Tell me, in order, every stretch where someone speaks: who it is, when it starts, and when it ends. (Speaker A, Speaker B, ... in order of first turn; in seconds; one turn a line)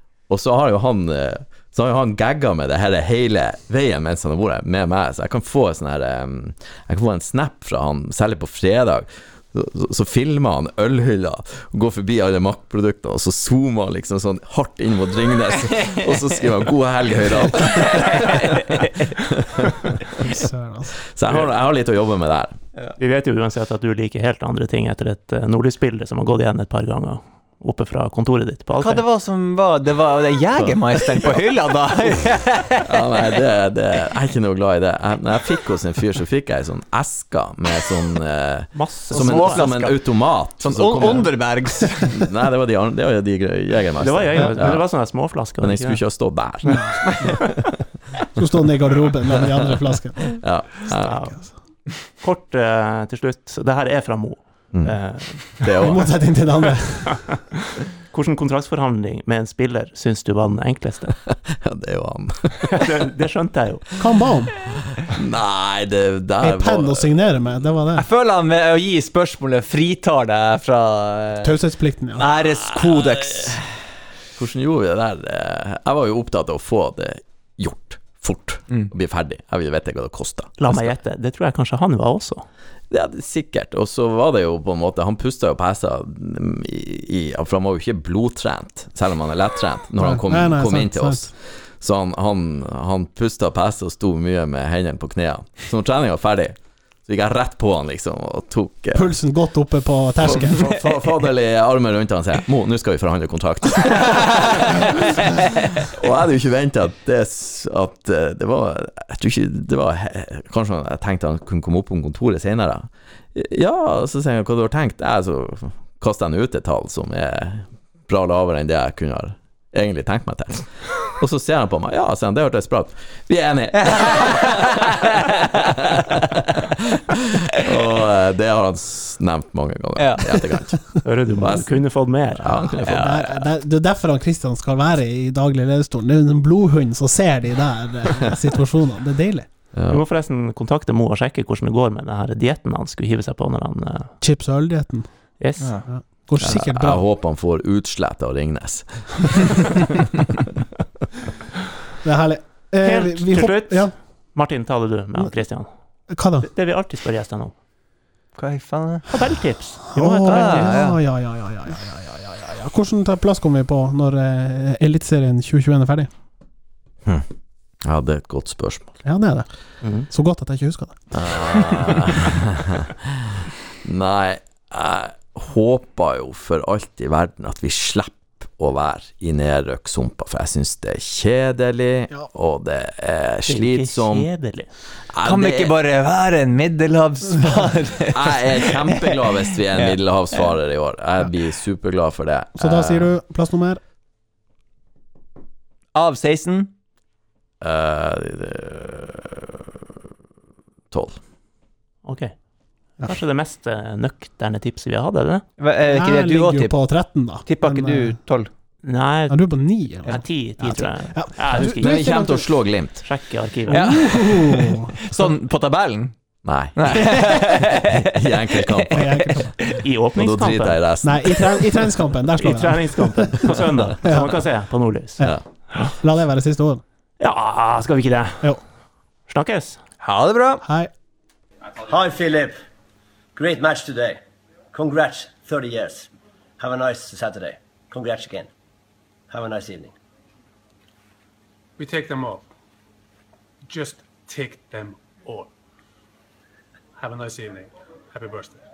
Speaker A: 0.3-20.3
Speaker B: 17.7-19.1
Speaker C: 20.2-20.9
Speaker A: 21.1-22.6
Speaker D: 23.0-29.0
Speaker B: 28.8-33.4
Speaker A: 30.6-31.3
Speaker A: 32.9-47.7
Speaker D: 38.7-39.6
Speaker B: 39.1-40.1
Speaker B: 40.6-42.2
Speaker D: 44.0-46.0
Speaker C: 46.6-47.6
Speaker C: 48.4-50.5
Speaker A: 49.4-49.8
Speaker A: 50.3-51.2
Speaker D: 50.9-51.4
Speaker D: 52.2-55.7
Speaker A: 54.7-56.1
Speaker C: 55.8-57.3
Speaker D: 58.1-61.1
Speaker A: 61.3-62.9
Speaker D: 62.7-63.9
Speaker C: 64.0-64.6
Speaker A: 65.0-67.5
Speaker C: 66.4-68.1
Speaker B: 68.0-71.6
Speaker C: 71.4-72.2
Speaker B: 72.2-73.6
Speaker A: 72.4-73.7
Speaker A: 74.4-80.9
Speaker D: 80.6-82.5
Speaker A: 82.9-99.1
Speaker C: 90.0-91.3
Speaker C: 98.9-100.7
Speaker A: 100.2-133.4
Speaker B: 123.8-124.7
Speaker B: 130.0-130.3
Speaker D: 131.0-132.7
Speaker C: 132.8-139.5
Speaker B: 132.9-133.1
Speaker A: 139.7-140.0
Speaker D: 139.9-144.1
Speaker C: 144.2-145.1
Speaker D: 145.4-145.7
Speaker B: 145.6-145.8
Speaker C: 145.7-147.0
Speaker A: 146.4-149.9
Speaker C: 152.0-153.9
Speaker D: 152.8-155.7
Speaker C: 156.1-156.5
Speaker D: 156.4-157.5
Speaker B: 158.4-159.1
Speaker D: 159.1-160.8
Speaker C: 159.9-166.1
Speaker B: 160.3-161.0
Speaker A: 167.8-168.9
Speaker C: 169.1-169.5
Speaker D: 169.8-170.1
Speaker C: 170.0-171.1
Speaker A: 171.1-173.1
Speaker A: 173.8-184.3
Speaker D: 183.4-184.7
Speaker A: 185.1-185.7
Speaker B: 185.2-189.2
Speaker A: 188.1-193.1
Speaker C: 192.6-193.8
Speaker B: 195.9-196.7
Speaker A: 197.6-199.6
Speaker A: 200.9-201.2
Speaker D: 202.1-202.4
Speaker D: 203.0-205.4
Speaker B: 205.6-206.9
Speaker C: 205.9-208.2
Speaker B: 207.4-208.5
Speaker D: 208.8-212.4
Speaker C: 209.3-212.5
Speaker A: 211.6-213.1
Speaker D: 213.0-213.9
Speaker C: 213.7-215.3
Speaker B: 213.7-216.2
Speaker A: 216.4-219.4
Speaker B: 216.7-219.5
Speaker C: 218.9-219.5
Speaker D: 219.8-220.8
Speaker A: 220.2-221.9
Speaker C: 221.0-223.3
Speaker D: 222.4-225.2
Speaker C: 224.0-224.5
Speaker C: 226.0-226.8
Speaker D: 227.2-228.6
Speaker D: 229.3-229.8
Speaker B: 230.0-230.6
Speaker C: 230.6-230.9
Speaker E: 231.8-232.6
Speaker E: 233.3-234.2
Speaker E: 234.7-238.5
Speaker E: 239.3-239.9
Speaker F: 241.8-242.4
Speaker F: 243.7-245.5
Speaker F: 247.0-248.6